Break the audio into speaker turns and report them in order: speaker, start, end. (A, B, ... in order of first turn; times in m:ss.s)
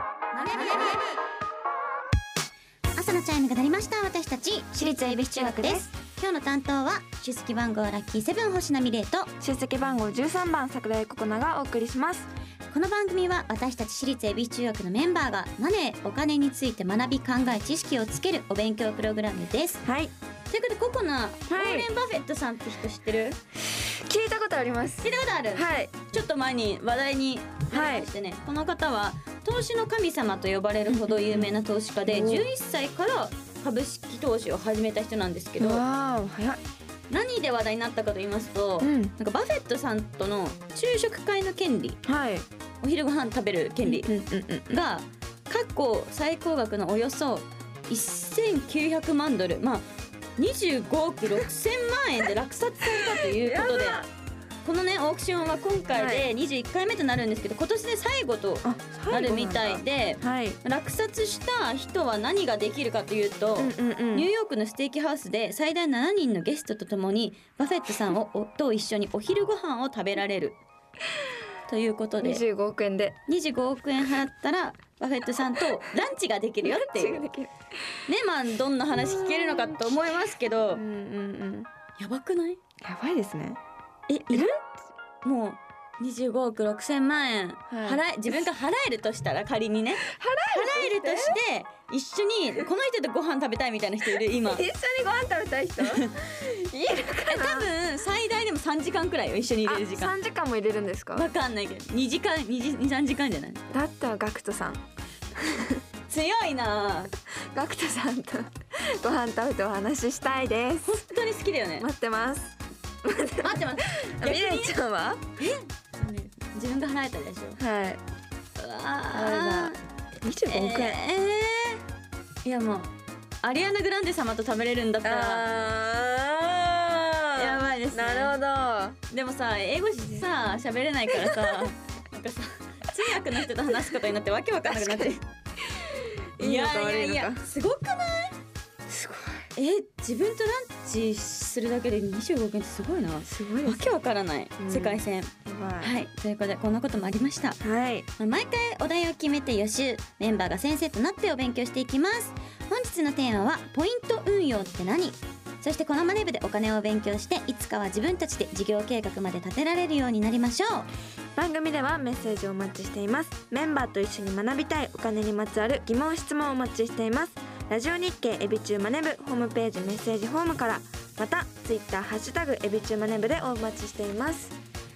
0:00.3-0:01.1 A
0:03.0-0:09.3 A
0:04.8-0:05.9 B
0:09.4-0:12.3 B
0:12.7-0:19.8 A
0:19.8-0:20.1 B
0:20.5-0:23.4 A
0:21.5-0:21.9 B
0:24.1-0:25.9 B
0:25.0-0:35.8 A
0:27.7-0:28.1 B
0:30.9-0:31.5 B
0:32.1-0:32.5 B
0:35.6-0:36.6 B
0:37.1-0:42.0 A
0:38.8-0:39.1 B
0:42.0-0:42.5 B
0:42.8-0:44.1 A
0:43.8-0:44.8 B
0:44.7-0:49.9 A
0:50.4-0:54.0 A
0:53.3-0:54.1 B
0:54.6-1:10.6 A
0:55.9-0:56.3 B
0:58.6-1:00.6 B
1:03.6-1:04.3 B
1:11.7-1:12.4 A
1:12.2-1:13.2 B
1:13.3-1:17.2 A
1:16.6-1:17.5 B
1:18.1-1:20.8 A
1:20.7-1:21.7 B
1:22.0-1:22.6 A
1:22.8-1:23.6 B
1:24.1-1:24.5 A
1:25.2-1:34.6 A
1:27.7-1:28.0 B
1:30.1-1:31.4 B
1:34.0-1:36.1 B
1:35.8-1:40.1 A
1:36.7-1:37.7 B
1:39.6-1:41.3 B
1:41.1-1:43.6 A
1:43.7-1:44.8 B
1:46.1-1:47.1 A
1:47.5-1:48.5 B
1:49.0-1:51.0 B
1:50.8-1:51.9 A
1:51.8-1:55.2 B
1:53.4-1:54.8 A
1:55.4-1:57.6 A
1:57.6-1:58.0 B
1:58.6-1:59.8 A
1:59.1-2:01.0 B
2:00.5-2:01.8 A
2:02.4-2:02.9 A
2:03.4-2:05.5 A
2:05.0-2:09.0 B
2:07.4-2:08.4 A
2:09.1-2:15.3 A
2:14.7-2:15.1 B
2:15.8-2:17.5 B
2:16.4-2:18.4 A
2:18.9-2:19.5 B
2:19.6-2:27.6 A
2:23.3-2:23.8 B
2:24.6-2:25.9 B
2:27.6-2:28.1 B
2:28.2-2:40.9 A
2:41.4-2:54.6 B